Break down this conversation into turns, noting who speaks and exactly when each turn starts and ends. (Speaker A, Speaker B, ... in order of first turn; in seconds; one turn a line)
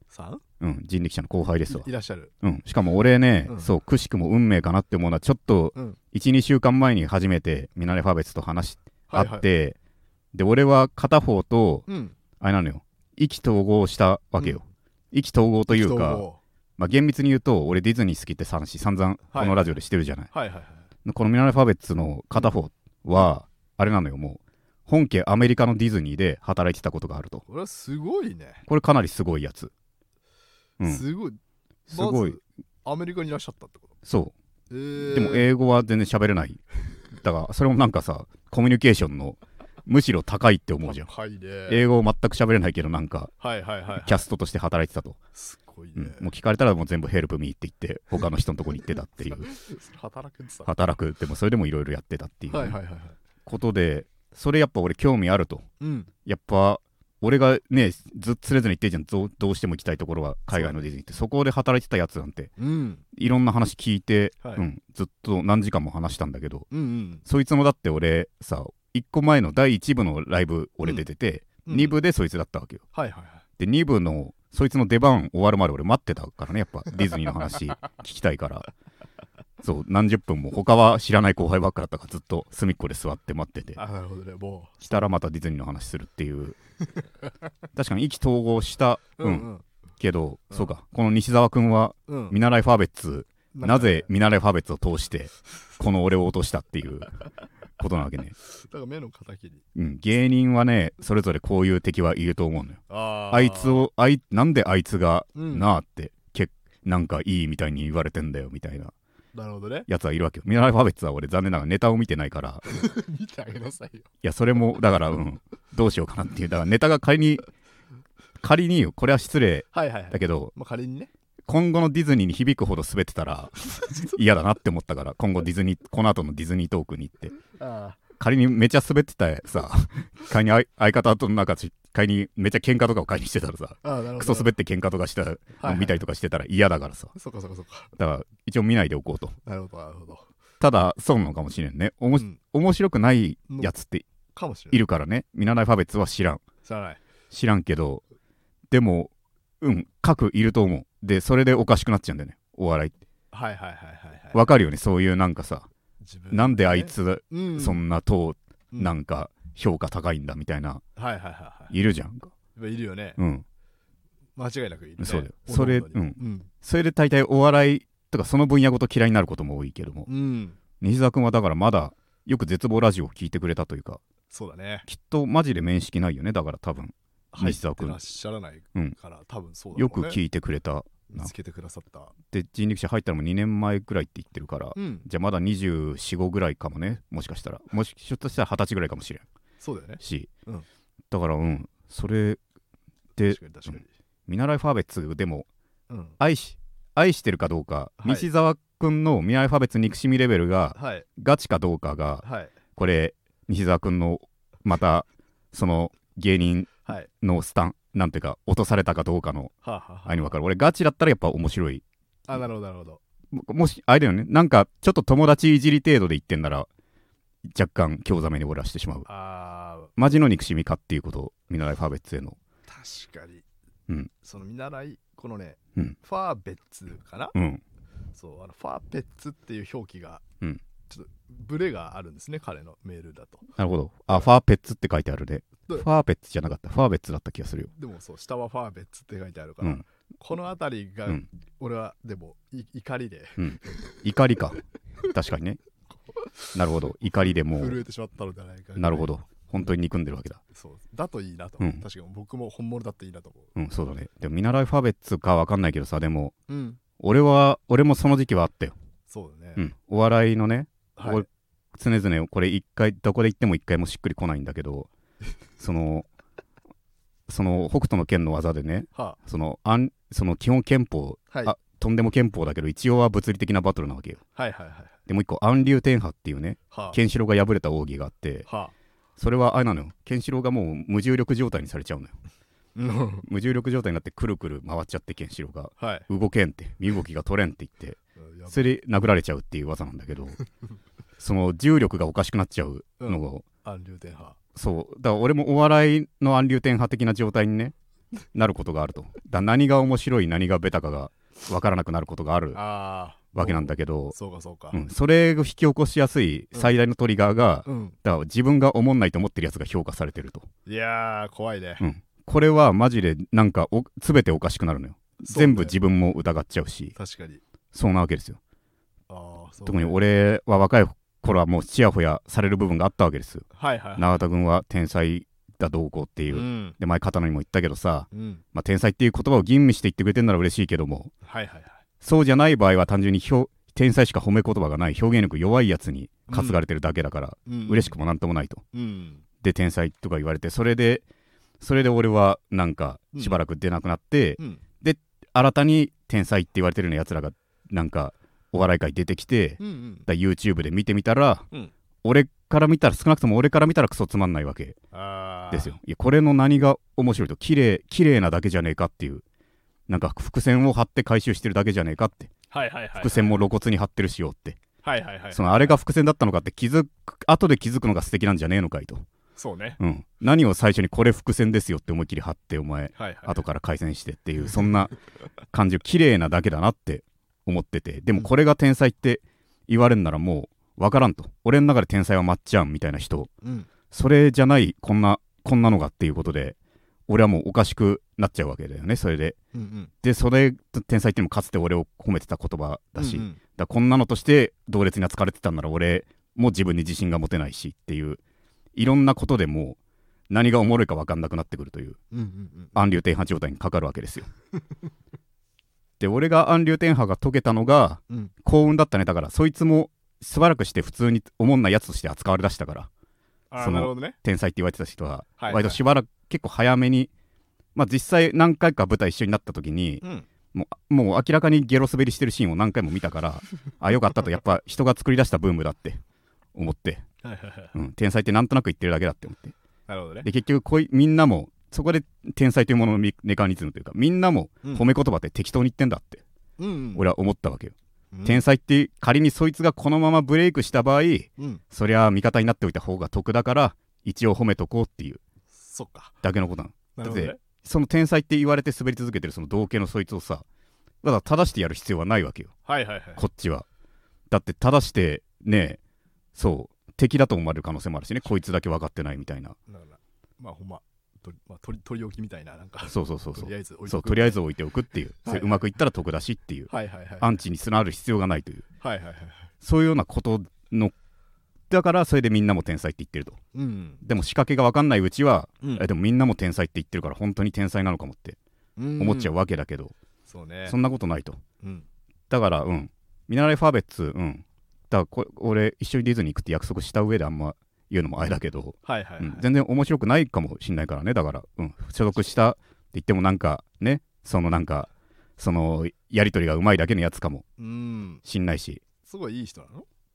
Speaker A: 0.1-0.4
Speaker B: 0.6-1.9
Speaker A: 1.7-2.3
Speaker B: 2.4-9.8
Speaker A: 3.5-3.7
Speaker A: 9.1-9.4
Speaker B: 10.3-11.9
Speaker A: 11.9-12.2
Speaker B: 12.4-16.2
Speaker A: 14.4-14.6
Speaker A: 15.7-16.4
Speaker B: 16.8-20.3
Speaker A: 19.3-19.8
Speaker A: 20.3-20.9
Speaker B: 21.0-27.4
Speaker A: 27.4-28.6
Speaker B: 28.7-29.7
Speaker B: 30.8-31.0
Speaker A: 30.8-31.4
Speaker B: 31.9-32.4
Speaker A: 31.9-33.9
Speaker B: 34.0-34.3
Speaker A: 34.7-35.5
Speaker B: 35.0-36.6
Speaker B: 37.1-41.1
Speaker A: 40.8-41.9
Speaker B: 41.7-43.3
Speaker A: 43.4-44.3
Speaker B: 44.0-45.2
Speaker A: 45.3-46.3
Speaker B: 46.0-49.5
Speaker A: 49.4-50.7
Speaker B: 50.6-52.8
Speaker A: 52.5-53.2
Speaker B: 53.5-55.7
Speaker A: 55.8-56.1
Speaker B: 56.2-62.5
Speaker A: 60.5-60.8
Speaker A: 62.6-63.0
Speaker B: 63.1-66.7
Speaker A: 66.7-67.2
Speaker B: 67.2-72.8
Speaker A: 71.6-72.0
Speaker A: 72.9-73.4
Speaker B: 73.6-78.7
Speaker B: 79.6-83.8
Speaker A: 83.8-85.1
Speaker B: 84.8-86.6
Speaker B: 87.7-97.2
Speaker A: 89.2-89.6
Speaker A: 92.1-92.4
Speaker A: 93.5-94.1
Speaker B: 97.8-98.3
Speaker A: 98.5-99.6
Speaker B: 99.7-108.9
Speaker A: 102.9-103.9
Speaker A: 105.3-105.7
Speaker A: 109.3-109.9
Speaker B: 109.9-112.7
Speaker A: 112.7-114.1
Speaker B: 114.2-117.5
Speaker B: 118.4-120.5
Speaker A: 119.7-121.1
Speaker B: 121.5-127.4
Speaker A: 127.5-128.0
Speaker B: 128.2-137.1
Speaker A: 133.8-134.5
Speaker A: 135.6-136.0
Speaker A: 137.1-137.9
Speaker B: 137.9-139.4
Speaker A: 139.4-140.3
Speaker B: 140.6-144.1
Speaker A: 144.3-144.8
Speaker B: 144.7-146.4
Speaker A: 146.6-147.0
Speaker B: 147.3-148.0
Speaker B: 148.7-152.9
Speaker A: 153.3-154.4
Speaker B: 154.3-155.7
Speaker A: 156.0-157.8
Speaker B: 156.3-160.8
Speaker A: 160.9-161.7
Speaker B: 161.7-162.3
Speaker A: 162.5-163.2
Speaker B: 163.2-163.4
Speaker A: 164.3-166.5
Speaker B: 165.0-170.1
Speaker A: 170.1-170.6
Speaker B: 170.8-174.0
Speaker A: 174.3-174.8
Speaker B: 174.8-178.0
Speaker A: 177.3-180.2
Speaker B: 179.7-181.3
Speaker A: 181.1-182.1
Speaker B: 182.3-189.2
Speaker A: 184.7-185.1
Speaker A: 189.6-190.7
Speaker B: 190.0-190.3
Speaker B: 191.1-192.4
Speaker B: 193.2-195.5
Speaker A: 193.2-193.9
Speaker A: 195.9-196.2
Speaker B: 196.2-209.5
Speaker A: 198.0-198.3
Speaker A: 200.7-201.1
Speaker A: 202.2-202.5
Speaker A: 209.6-210.3
Speaker B: 210.1-211.8
Speaker A: 212.3-213.0
Speaker B: 213.3-216.7
Speaker B: 217.5-219.1
Speaker A: 219.1-220.0
Speaker B: 219.9-222.4
Speaker A: 222.7-223.4
Speaker A: 224.2-227.3
Speaker B: 227.3-227.6
Speaker A: 228.1-230.2
Speaker A: 230.9-233.5
Speaker B: 233.6-237.7
Speaker A: 237.7-243.4
Speaker B: 243.4-245.6
Speaker A: 245.9-249.2
Speaker B: 246.5-247.8
Speaker B: 248.8-250.4
Speaker A: 250.5-253.5
Speaker B: 253.6-256.3
Speaker A: 256.5-256.8
Speaker B: 257.0-258.7
Speaker A: 259.1-259.6
Speaker B: 259.6-264.9
Speaker A: 260.9-261.2
Speaker B: 265.6-266.1
Speaker B: 267.3-274.2
Speaker A: 274.4-274.9
Speaker B: 275.1-278.5
Speaker A: 276.7-277.0
Speaker A: 278.5-278.7
Speaker B: 279.2-282.1
Speaker A: 282.7-283.2
Speaker B: 283.2-290.4
Speaker A: 285.8-286.1
Speaker A: 288.2-288.6
Speaker B: 291.2-293.4
Speaker A: 293.0-294.4
Speaker B: 294.5-297.7
Speaker B: 298.3-302.6
Speaker A: 302.5-304.8
Speaker B: 303.3-304.1
Speaker B: 304.7-310.5
Speaker A: 307.6-308.0
Speaker A: 310.6-311.8
Speaker B: 311.8-316.9
Speaker A: 315.2-315.8
Speaker A: 316.9-317.4
Speaker B: 317.7-318.4
Speaker A: 319.1-320.0
Speaker B: 319.6-323.4
Speaker A: 323.5-324.2
Speaker B: 324.0-331.1
Speaker A: 326.3-326.8
Speaker A: 328.1-328.4
Speaker A: 331.2-331.8
Speaker B: 332.0-338.6
Speaker A: 336.3-336.6
Speaker A: 337.4-337.9
Speaker A: 338.7-339.2
Speaker B: 339.4-341.0
Speaker B: 341.6-351.5
Speaker A: 344.4-344.6
Speaker A: 349.6-350.1
Speaker B: 352.0-354.8
Speaker A: 354.9-355.7
Speaker B: 355.5-359.2
Speaker B: 359.9-362.3
Speaker A: 362.5-363.4
Speaker B: 362.9-364.6
Speaker A: 364.8-365.8
Speaker B: 365.3-369.0
Speaker A: 369.4-369.8
Speaker B: 369.8-375.0
Speaker A: 372.9-373.4
Speaker B: 375.5-383.3
Speaker A: 383.4-383.7
Speaker B: 383.9-386.6
Speaker B: 387.1-389.4
Speaker A: 389.5-389.9
Speaker B: 390.0-398.2
Speaker A: 393.0-393.4
Speaker B: 398.7-399.8
Speaker B: 400.3-402.0
Speaker A: 402.1-402.8
Speaker B: 402.7-404.3
Speaker B: 406.0-412.9
Speaker A: 413.5-414.2
Speaker B: 413.6-417.1
Speaker A: 415.4-415.8
Speaker B: 417.7-426.0
Speaker A: 420.0-420.3
Speaker B: 426.5-427.0
Speaker A: 427.2-427.7
Speaker B: 427.7-429.5
Speaker A: 429.9-430.3
Speaker B: 430.2-436.2
Speaker A: 436.6-437.0
Speaker B: 436.9-437.7
Speaker A: 438.1-438.4
Speaker B: 438.2-445.2
Speaker A: 445.5-446.2
Speaker B: 446.2-450.4
Speaker A: 446.9-447.4
Speaker B: 451.0-452.5
Speaker A: 452.6-453.2
Speaker B: 453.1-453.6
Speaker B: 454.3-455.8
Speaker B: 456.3-459.6
Speaker A: 459.7-464.4
Speaker B: 462.9-468.6
Speaker A: 465.2-465.7
Speaker A: 466.7-467.4
Speaker A: 468.8-469.5
Speaker B: 469.6-470.9
Speaker B: 471.7-473.4
Speaker A: 473.5-474.0
Speaker B: 474.0-478.4
Speaker A: 475.6-475.9
Speaker A: 478.8-479.3
Speaker B: 479.0-479.9
Speaker A: 480.3-480.8
Speaker B: 480.6-481.4
Speaker A: 481.6-481.9
Speaker B: 482.3-497.4
Speaker A: 488.8-489.4
Speaker A: 497.6-498.2
Speaker B: 498.2-498.8
Speaker A: 499.0-499.9